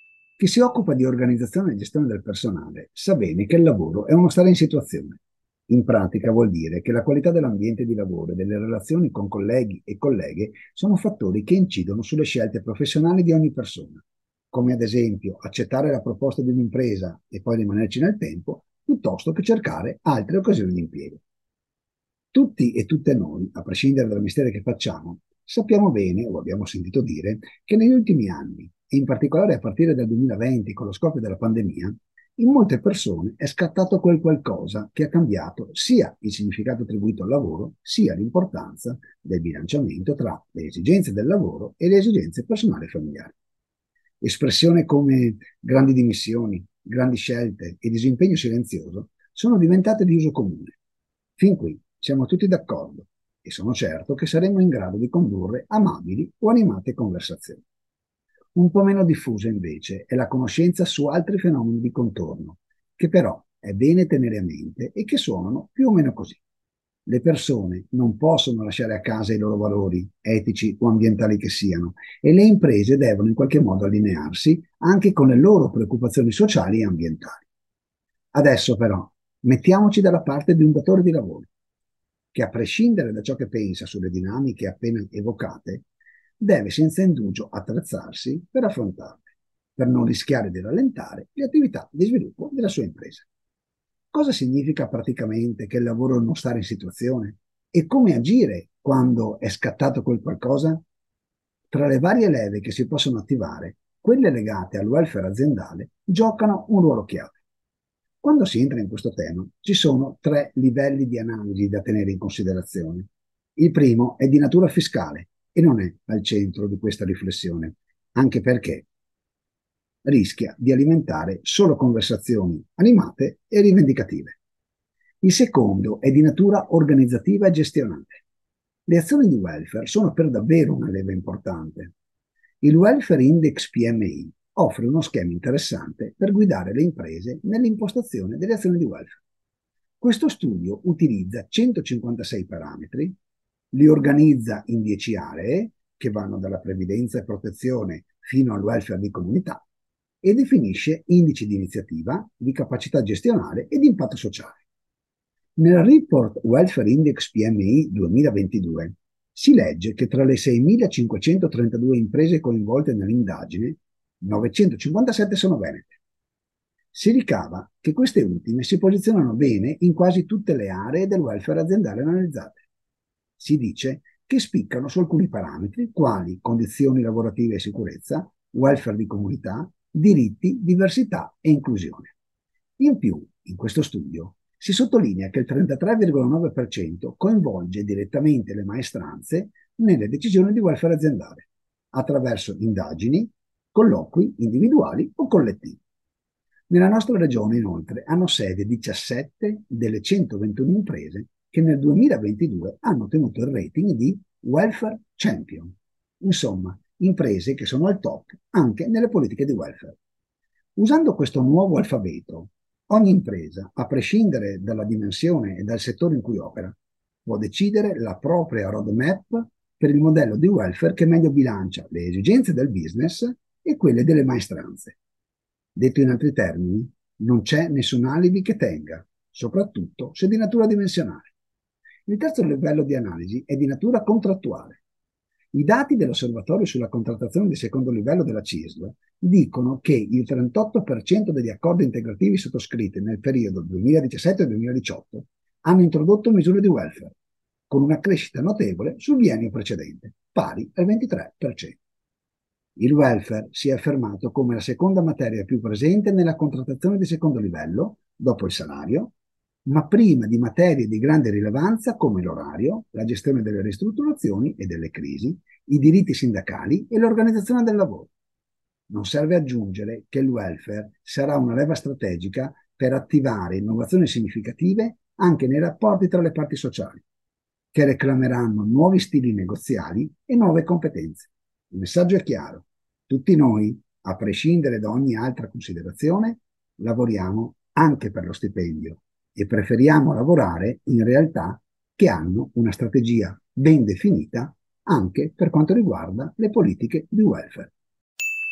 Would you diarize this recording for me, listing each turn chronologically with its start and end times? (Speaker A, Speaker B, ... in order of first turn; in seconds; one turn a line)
Speaker A: 0.4-21.2
Speaker A: 22.3-43.3
Speaker A: 44.2-50.8
Speaker A: 51.4-57.6
Speaker A: 58.5-66.4
Speaker A: 67.0-77.5
Speaker A: 78.3-81.5
Speaker A: 82.3-85.8
Speaker A: 86.4-93.2
Speaker A: 94.1-100.8
Speaker A: 101.7-107.4
Speaker A: 108.2-118.9
Speaker A: 120.0-124.4
Speaker A: 125.2-128.2
Speaker A: 128.9-131.9
Speaker A: 132.6-139.2
Speaker A: 140.0-143.2
Speaker A: 143.7-149.6
Speaker A: 150.2-154.6
Speaker A: 155.6-166.0
Speaker A: 166.9-172.6
Speaker A: 173.4-182.1
Speaker A: 182.8-195.8
Speaker A: 196.7-210.0
Speaker A: 210.8-225.0
Speaker A: 225.8-231.3
Speaker A: 232.1-234.8
Speaker A: 235.5-247.1
Speaker A: 247.7-251.8
Speaker A: 252.8-259.1
Speaker A: 259.6-268.1
Speaker A: 268.9-277.0
Speaker A: 277.7-297.7